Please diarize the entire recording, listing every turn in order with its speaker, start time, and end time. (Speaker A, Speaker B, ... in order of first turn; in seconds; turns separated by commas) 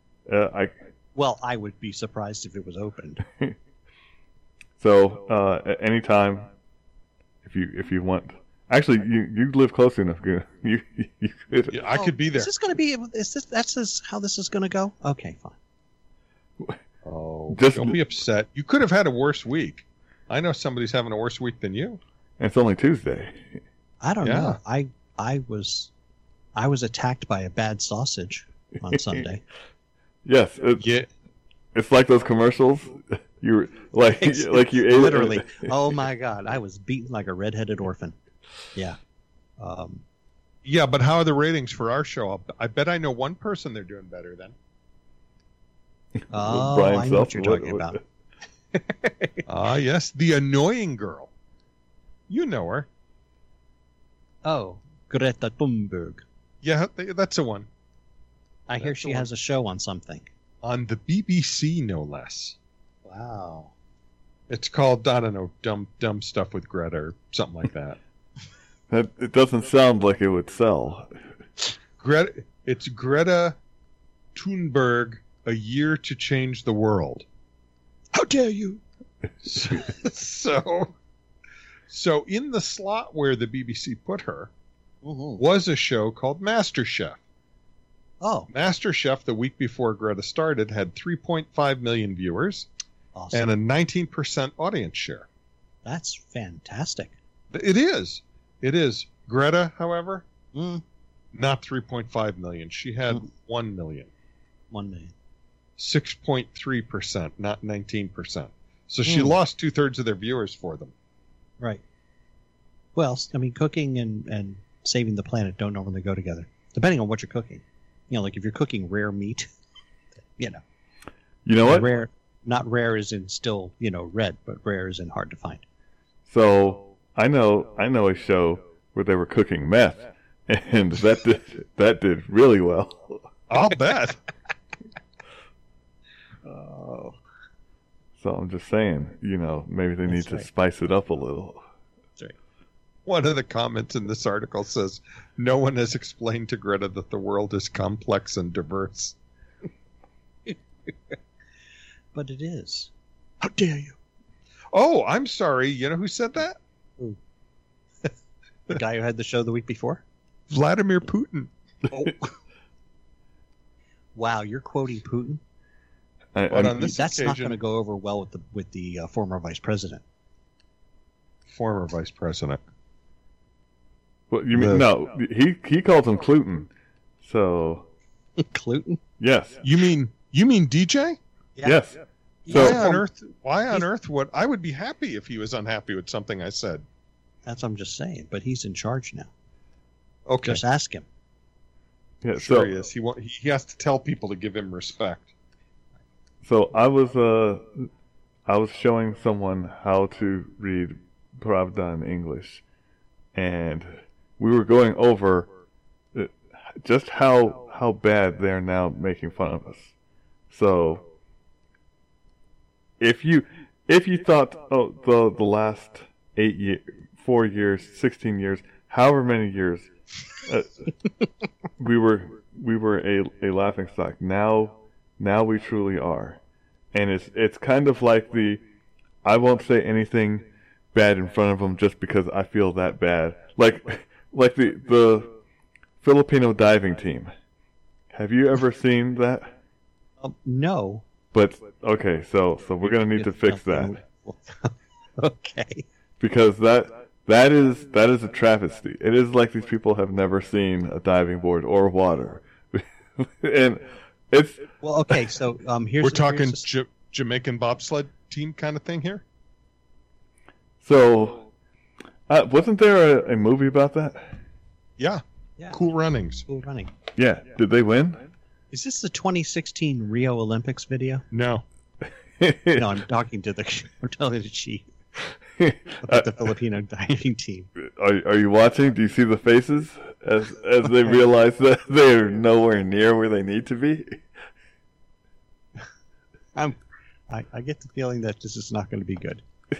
Speaker A: 0.3-0.7, Speaker B: 1.1-3.2, Speaker A: 4.8-6.5, Speaker A: 7.4-11.8, Speaker C: 11.7-12.5, Speaker B: 11.9-15.6, Speaker C: 17.0-22.0, Speaker A: 17.5-18.0, Speaker A: 22.4-23.6, Speaker B: 24.0-25.9, Speaker C: 24.2-24.6, Speaker B: 26.6-29.4, Speaker A: 30.2-30.9, Speaker C: 30.8-31.1, Speaker A: 31.7-35.7, Speaker B: 34.2-38.1, Speaker B: 39.6-40.0, Speaker C: 40.6-44.5, Speaker A: 46.2-48.0, Speaker B: 46.3-48.0, Speaker B: 49.0-49.3, Speaker C: 49.5-51.3, Speaker C: 52.3-52.9, Speaker B: 54.4-56.2, Speaker C: 56.6-57.7, Speaker B: 58.7-60.3, Speaker C: 58.8-59.2, Speaker C: 60.6-62.6, Speaker B: 63.0-63.7, Speaker C: 64.5-68.0, Speaker A: 68.9-71.1, Speaker C: 72.0-73.5, Speaker C: 74.3-77.2, Speaker B: 78.1-78.8, Speaker C: 79.4-80.9, Speaker C: 81.9-84.5, Speaker B: 85.0-85.4, Speaker C: 85.4-87.2, Speaker B: 88.2-88.5, Speaker C: 88.5-92.7, Speaker B: 93.1-93.5, Speaker C: 93.3-95.3, Speaker B: 95.8-97.1, Speaker C: 97.5-100.2, Speaker B: 100.5-100.8, Speaker C: 101.3-104.1, Speaker B: 104.7-105.1, Speaker C: 105.8-110.9, Speaker B: 109.0-109.3, Speaker B: 113.0-119.5, Speaker B: 120.3-120.6, Speaker A: 121.5-121.9, Speaker B: 121.6-125.6, Speaker A: 126.3-133.3, Speaker C: 133.5-134.2, Speaker B: 136.4-137.2, Speaker A: 138.2-141.6, Speaker B: 140.1-140.5, Speaker C: 143.1-149.2, Speaker B: 152.1-153.9, Speaker C: 154.7-156.6, Speaker B: 158.7-160.0, Speaker C: 160.5-161.5, Speaker B: 161.9-162.3, Speaker B: 164.1-165.4, Speaker A: 166.3-166.9, Speaker C: 166.5-167.6, Speaker B: 166.8-170.0, Speaker C: 171.5-172.6, Speaker A: 174.3-176.7, Speaker C: 174.5-174.8, Speaker A: 177.2-177.9, Speaker B: 178.4-179.0, Speaker A: 179.2-179.6, Speaker C: 179.6-181.2, Speaker A: 181.6-182.8, Speaker B: 182.4-183.0, Speaker C: 182.5-186.8, Speaker B: 187.4-189.3, Speaker C: 190.3-190.6, Speaker B: 190.4-191.0, Speaker A: 192.2-192.7, Speaker C: 192.4-195.3, Speaker A: 196.4-197.9, Speaker A: 198.5-202.6, Speaker A: 203.3-205.5, Speaker A: 206.1-209.9, Speaker A: 210.5-211.0, Speaker A: 213.0-220.8, Speaker A: 221.8-226.4, Speaker A: 226.9-228.6, Speaker A: 229.2-235.3, Speaker A: 236.0-237.3, Speaker A: 238.1-239.5, Speaker B: 240.2-241.0, Speaker A: 241.3-243.9, Speaker B: 243.1-245.8, Speaker A: 246.2-254.7, Speaker B: 254.8-256.6, Speaker C: 256.0-259.2, Speaker A: 260.8-261.5, Speaker A: 262.3-264.4, Speaker C: 265.0-266.4, Speaker B: 266.5-266.9, Speaker A: 267.1-268.2, Speaker B: 268.7-271.2, Speaker C: 271.3-271.6, Speaker A: 272.4-272.8, Speaker B: 272.7-274.9, Speaker A: 275.6-276.3, Speaker B: 276.0-277.7, Speaker A: 277.8-284.2, Speaker B: 287.3-289.4